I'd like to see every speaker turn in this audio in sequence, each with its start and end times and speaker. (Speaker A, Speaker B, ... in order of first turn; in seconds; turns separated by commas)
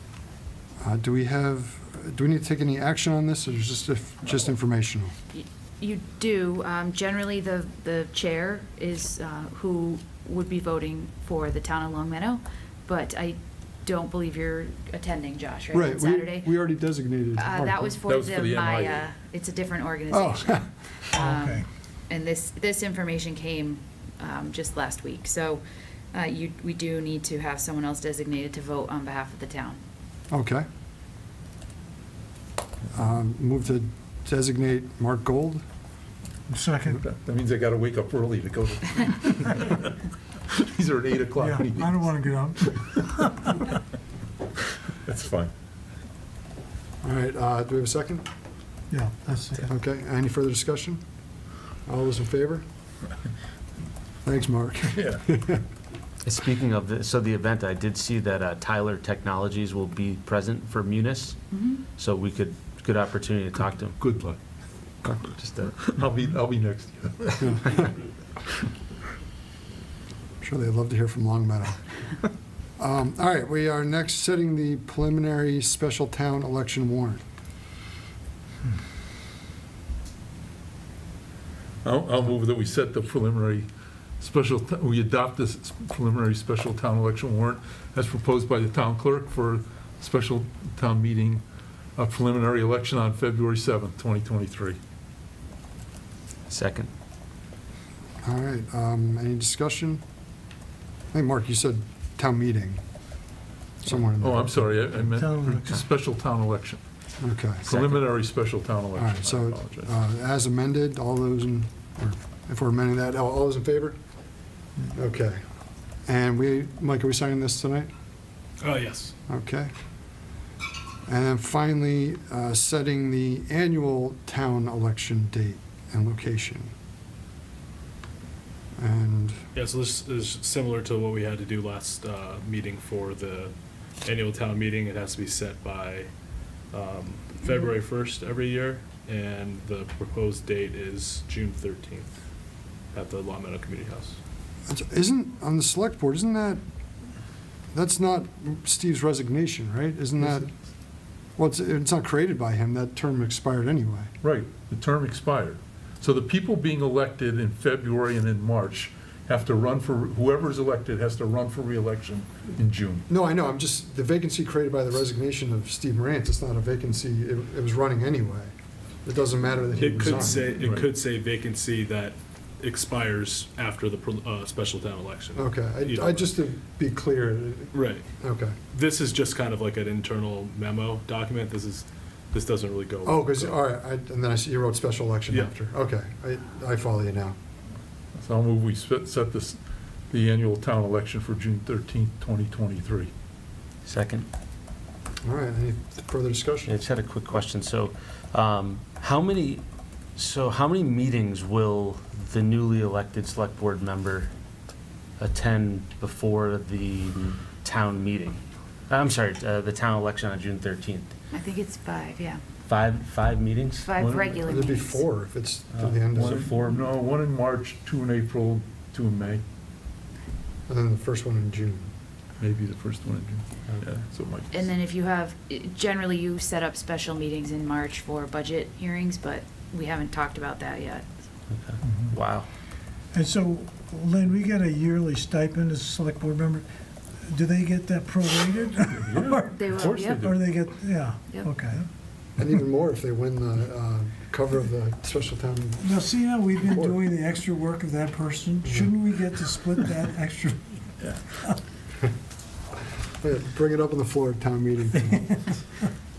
Speaker A: 0.8-5.1, Speaker B: 5.3-16.6, Speaker A: 15.7-17.9, Speaker B: 17.4-29.8, Speaker C: 18.1-19.1, Speaker A: 20.1-20.6, Speaker D: 21.1-21.6, Speaker A: 30.3-30.6, Speaker A: 32.9-35.6, Speaker D: 36.5-37.0, Speaker C: 36.9-43.6, Speaker D: 41.4-43.5, Speaker C: 45.0-45.5, Speaker A: 47.0-48.2, Speaker D: 48.9-49.7, Speaker A: 49.6-51.0, Speaker A: 51.9-52.6, Speaker A: 54.2-55.6, Speaker C: 54.9-55.2, Speaker E: 56.2-64.0, Speaker B: 61.5-61.8, Speaker C: 64.0-64.4, Speaker E: 65.0-65.9, Speaker C: 65.8-67.8, Speaker A: 67.4-67.9, Speaker A: 70.4-71.8, Speaker A: 72.8-77.2, Speaker C: 81.8-83.7, Speaker C: 84.2-91.4, Speaker C: 92.0-94.8, Speaker E: 96.5-96.9, Speaker A: 98.2-100.0, Speaker A: 101.1-102.8, Speaker A: 103.8-105.0, Speaker C: 104.1-106.8, Speaker D: 105.1-105.8, Speaker A: 107.2-107.7, Speaker C: 107.6-109.9, Speaker A: 108.9-114.0, Speaker A: 114.9-115.4, Speaker A: 116.0-117.9, Speaker F: 118.6-119.1, Speaker A: 119.3-119.7, Speaker A: 121.0-126.7, Speaker A: 128.8-129.4, Speaker F: 129.5-136.1, Speaker F: 136.7-142.2, Speaker F: 142.9-144.2, Speaker A: 144.7-146.6, Speaker A: 147.7-150.5, Speaker A: 151.3-154.1, Speaker C: 154.2-163.1, Speaker A: 163.1-168.5, Speaker A: 169.0-170.6, Speaker F: 169.8-176.4, Speaker C: 170.6-170.9, Speaker A: 175.3-178.6, Speaker F: 177.7-178.0, Speaker F: 178.7-183.6, Speaker A: 183.0-187.3, Speaker C: 188.1-189.6, Speaker C: 190.1-193.1, Speaker E: 193.8-194.3, Speaker A: 195.2-196.7, Speaker E: 196.7-199.6, Speaker E: 200.2-204.3, Speaker E: 205.2-211.1, Speaker B: 211.3-212.4, Speaker E: 212.7-213.9, Speaker B: 213.8-215.0, Speaker C: 214.0-214.4, Speaker A: 214.4-216.4, Speaker E: 215.7-216.9, Speaker C: 216.2-219.4, Speaker A: 220.7-221.9, Speaker C: 222.4-224.7, Speaker B: 224.5-231.1, Speaker E: 231.5-232.5, Speaker D: 233.1-236.7, Speaker D: 237.2-241.8, Speaker C: 239.0-240.4, Speaker B: 239.5-240.4, Speaker B: 241.3-241.5, Speaker A: 242.4-246.0, Speaker D: 245.8-251.6, Speaker A: 246.6-247.0, Speaker C: 251.0-251.3, Speaker A: 253.2-255.4